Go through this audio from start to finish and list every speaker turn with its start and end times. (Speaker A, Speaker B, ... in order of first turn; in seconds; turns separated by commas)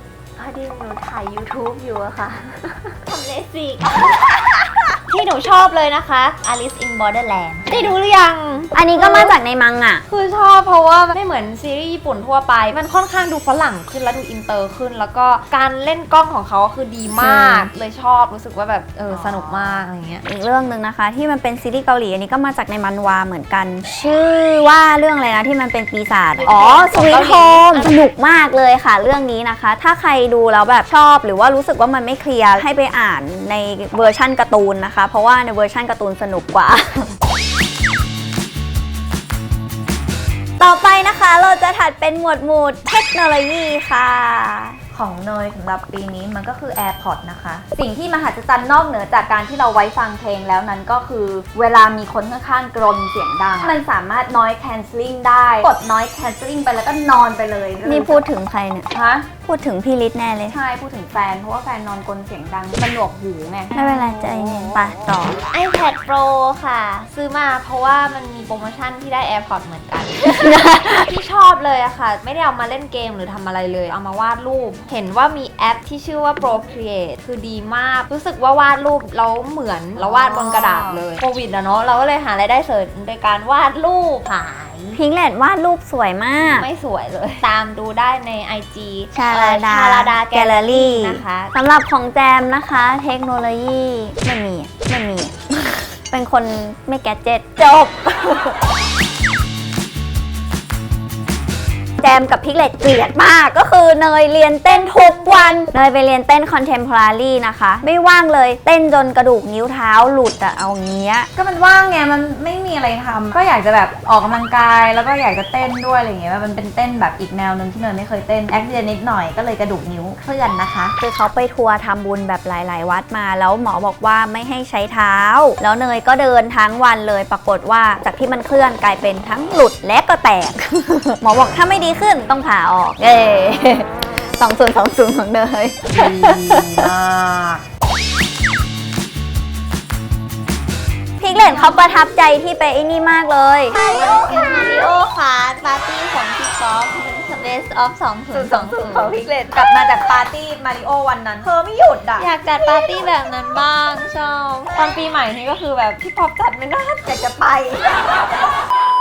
Speaker A: 0.4-9.4, Speaker B: 8.7-10.0, Speaker A: 10.1-20.2, Speaker B: 17.2-17.7, Speaker C: 19.1-19.9, Speaker B: 20.2-37.1, Speaker A: 26.4-27.9, Speaker B: 40.6-44.8, Speaker C: 44.9-58.2, Speaker B: 57.8-58.9, Speaker C: 58.9-59.3, Speaker B: 59.4-60.5, Speaker C: 60.5-63.8, Speaker B: 63.7-65.4, Speaker A: 65.5-70.3, Speaker B: 70.2-71.1, Speaker A: 71.0-85.0, Speaker C: 79.9-81.0, Speaker B: 84.9-86.7, Speaker A: 86.4-91.5, Speaker B: 89.1-98.6, Speaker B: 102.0-111.3, Speaker A: 104.7-105.6, Speaker C: 111.3-120.9, Speaker B: 121.0-136.9, Speaker C: 135.9-137.6, Speaker B: 141.2-143.8, Speaker A: 141.3-141.8, Speaker A: 143.7-149.6, Speaker C: 143.9-144.7, Speaker C: 148.3-152.3, Speaker A: 152.2-158.2